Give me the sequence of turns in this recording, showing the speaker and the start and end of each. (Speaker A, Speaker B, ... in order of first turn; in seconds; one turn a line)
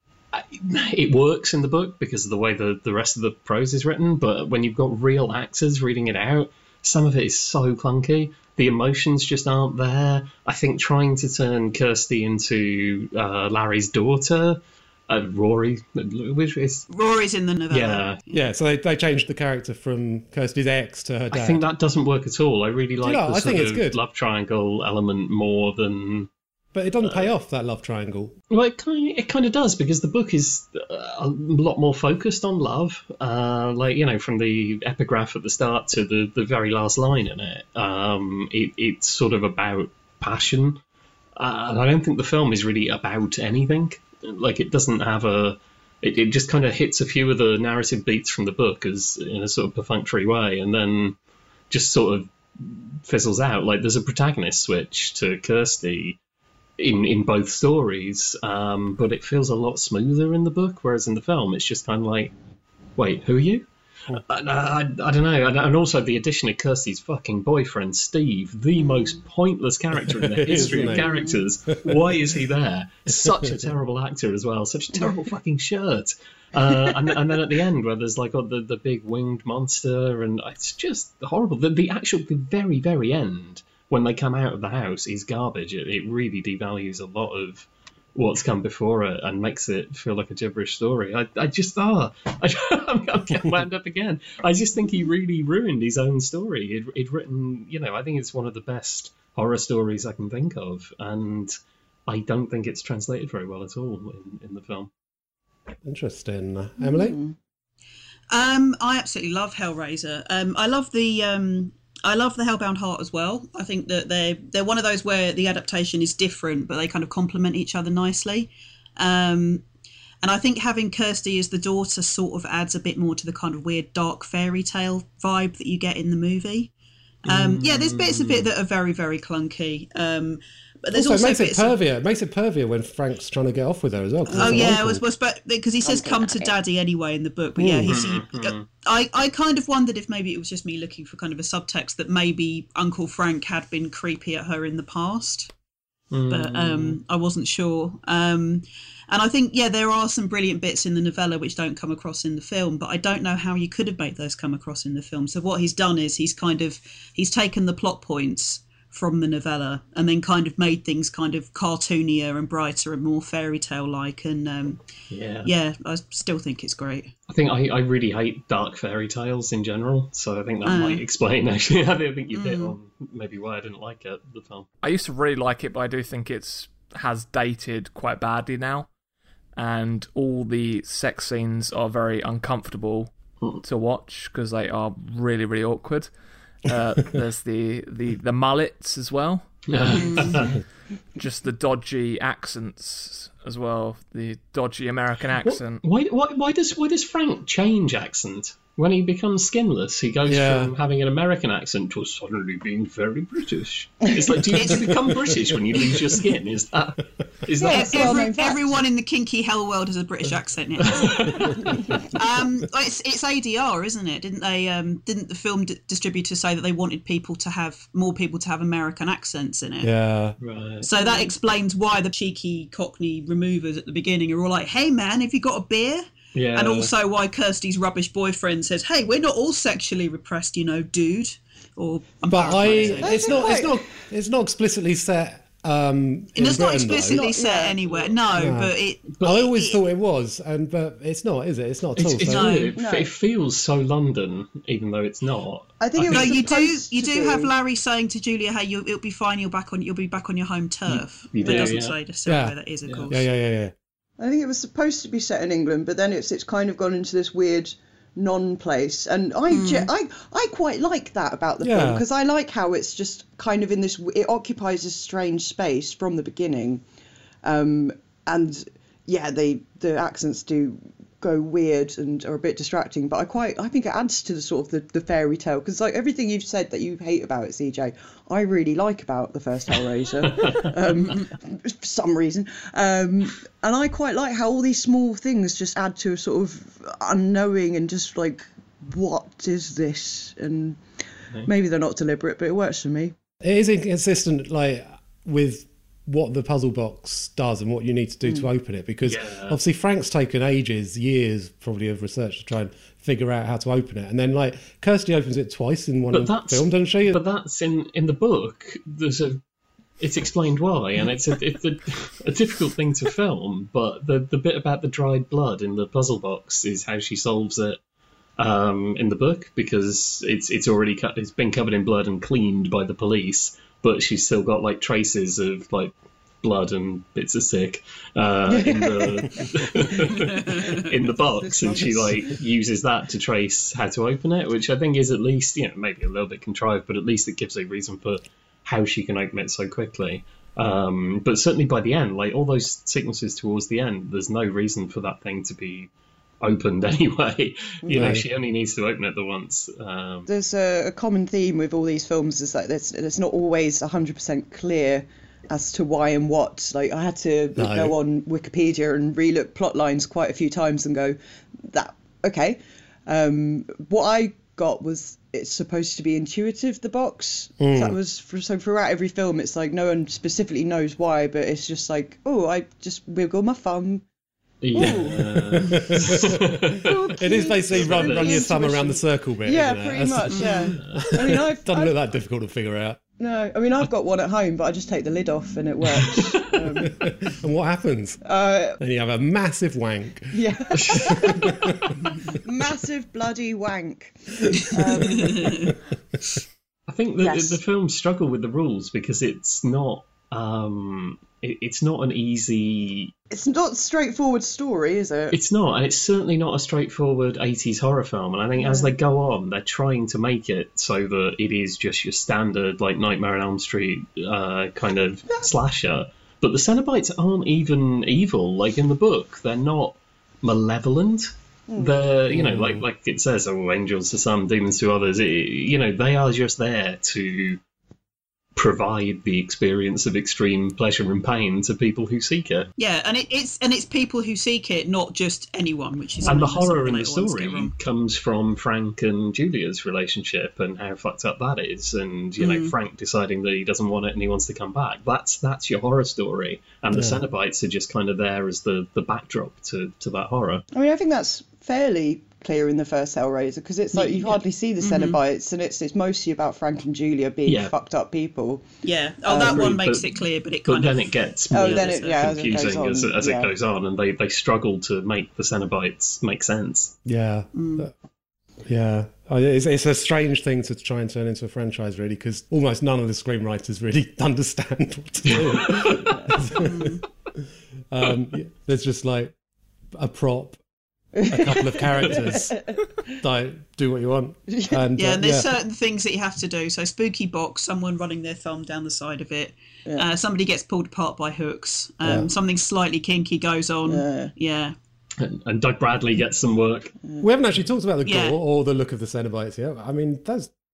Speaker A: 0.3-16.9
Speaker B: 16.9-18.4
Speaker A: 17.7-18.2
Speaker C: 18.3-21.6
Speaker A: 21.3-26.3
Speaker C: 23.0-24.0
Speaker C: 26.7-28.3
Speaker A: 27.0-27.3
Speaker A: 28.5-40.8
Speaker A: 41.4-51.2
Speaker A: 51.7-56.2
Speaker A: 56.8-62.3
Speaker A: 63.0-63.6
Speaker A: 64.2-101.5
Speaker D: 68.8-69.2
Speaker C: 70.1-71.1
Speaker D: 70.9-71.4
Speaker A: 102.1-104.9
Speaker C: 105.8-107.2
Speaker D: 106.8-107.3
Speaker B: 108.3-119.7
Speaker B: 120.2-126.7
Speaker B: 127.2-131.8
Speaker A: 127.3-128.5
Speaker C: 130.9-135.0
Speaker D: 134.3-134.7
Speaker B: 134.3-145.5
Speaker D: 135.8-136.6
Speaker C: 137.6-137.9
Speaker A: 137.9-138.7
Speaker A: 146.1-147.0
Speaker B: 146.3-164.8
Speaker A: 165.1-165.5
Speaker B: 165.4-167.1
Speaker A: 167.3-174.7
Speaker B: 170.6-171.0
Speaker B: 172.3-172.7
Speaker E: 174.8-178.9
Speaker E: 179.6-186.1
Speaker E: 186.7-190.4
Speaker A: 189.7-190.5
Speaker B: 190.0-190.3
Speaker E: 191.2-195.8
Speaker A: 195.8-208.3
Speaker C: 200.3-200.7
Speaker B: 204.5-204.9
Speaker D: 207.6-208.8
Speaker B: 207.7-219.9
Speaker A: 210.9-211.5
Speaker C: 219.8-220.4
Speaker A: 220.4-220.9
Speaker B: 220.8-233.4
Speaker D: 220.9-221.3
Speaker A: 226.3-226.9
Speaker C: 232.3-237.2
Speaker A: 232.7-233.0
Speaker D: 233.0-233.8
Speaker B: 236.3-239.8
Speaker D: 236.9-237.8
Speaker C: 238.4-242.7
Speaker A: 242.0-246.5
Speaker B: 242.2-242.7
Speaker D: 242.8-243.1
Speaker D: 245.8-247.5
Speaker B: 246.1-253.2
Speaker A: 251.3-251.9
Speaker D: 251.4-251.7
Speaker C: 252.3-252.6
Speaker C: 253.1-253.7
Speaker D: 254.2-266.8
Speaker B: 259.5-259.9
Speaker C: 261.6-262.1
Speaker D: 267.4-290.8
Speaker A: 280.3-280.7
Speaker D: 291.4-293.1
Speaker C: 293.4-307.2
Speaker A: 299.1-299.6
Speaker A: 306.1-309.4
Speaker A: 310.0-317.8
Speaker A: 318.4-350.3
Speaker D: 328.5-329.5
Speaker B: 330.4-330.7
Speaker D: 331.4-332.2
Speaker D: 347.9-348.2
Speaker C: 347.9-348.2
Speaker D: 350.3-374.0
Speaker C: 357.6-358.0
Speaker C: 367.6-368.0
Speaker A: 374.6-377.0
Speaker D: 374.7-375.2
Speaker C: 374.8-383.0
Speaker D: 376.8-381.9
Speaker A: 377.7-378.4
Speaker B: 380.3-380.7
Speaker D: 383.2-387.0
Speaker C: 386.9-388.2
Speaker D: 388.2-388.8
Speaker C: 388.8-391.8
Speaker D: 390.3-391.5
Speaker A: 390.7-391.3
Speaker D: 392.4-395.5
Speaker C: 394.8-395.5
Speaker B: 395.1-395.7
Speaker A: 396.9-403.1
Speaker D: 397.2-397.6
Speaker D: 403.3-405.4
Speaker A: 405.3-427.6
Speaker D: 408.6-408.9
Speaker D: 421.7-422.0
Speaker C: 422.3-422.9
Speaker A: 428.6-432.7
Speaker B: 432.8-437.7
Speaker A: 436.2-450.6
Speaker B: 442.4-442.7
Speaker C: 446.9-447.2
Speaker D: 450.7-458.6
Speaker B: 453.9-455.2
Speaker A: 457.4-457.7
Speaker B: 458.8-462.6
Speaker D: 459.3-459.7
Speaker A: 459.4-466.9
Speaker D: 461.5-463.5
Speaker C: 467.1-467.9
Speaker B: 467.5-467.9
Speaker C: 468.7-477.0
Speaker A: 475.3-476.1
Speaker B: 476.6-477.0
Speaker C: 477.9-479.3
Speaker C: 479.9-480.6
Speaker D: 481.2-482.5
Speaker C: 481.3-482.6
Speaker C: 483.2-485.5
Speaker D: 484.5-484.8
Speaker B: 485.0-494.8
Speaker C: 492.0-492.3
Speaker D: 493.9-494.3
Speaker A: 495.2-496.9
Speaker C: 497.2-500.5
Speaker B: 498.0-498.4